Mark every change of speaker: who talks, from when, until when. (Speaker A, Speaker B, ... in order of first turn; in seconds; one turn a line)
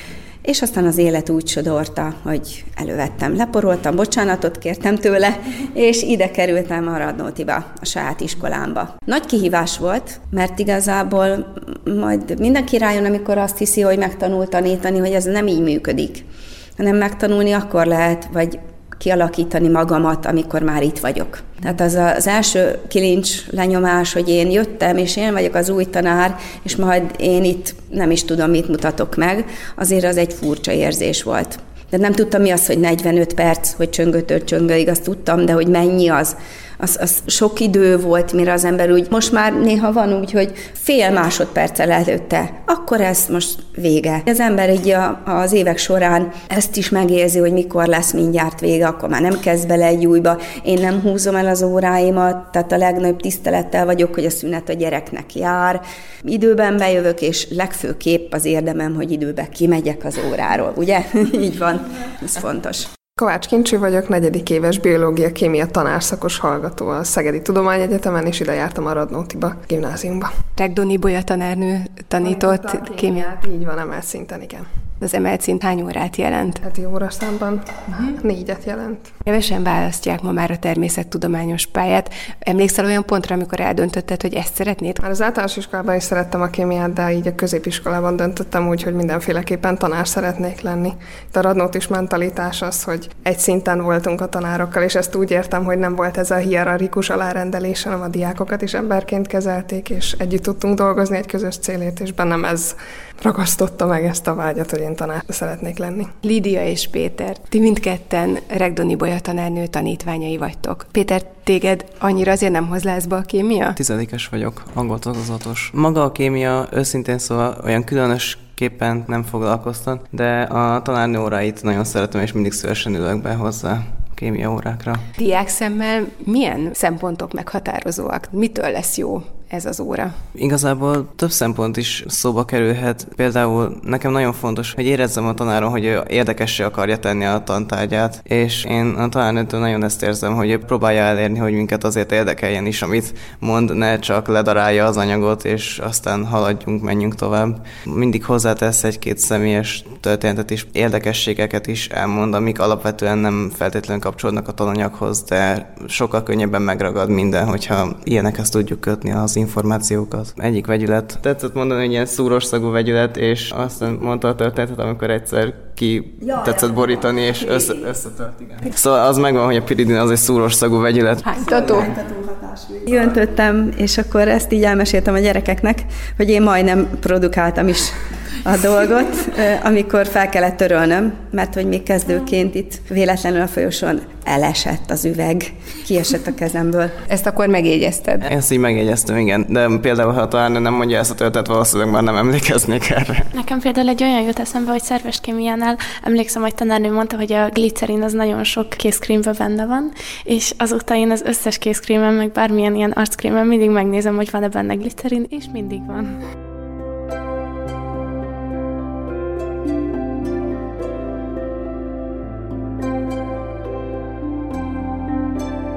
Speaker A: 0.4-16.2
Speaker A: 16.8-62.9
Speaker B: 63.2-70.3
Speaker C: 70.5-73.3
Speaker B: 72.2-74.7
Speaker C: 75.0-76.6
Speaker B: 76.6-79.1
Speaker C: 79.2-85.0
Speaker B: 85.0-106.1
Speaker C: 106.2-113.8
Speaker D: 113.8-125.0
Speaker C: 125.2-130.1
Speaker D: 130.3-171.3
Speaker C: 171.2-172.0
Speaker A: 172.7-186.9
Speaker C: 187.1-188.3
Speaker D: 188.2-193.3
Speaker E: 193.3-206.2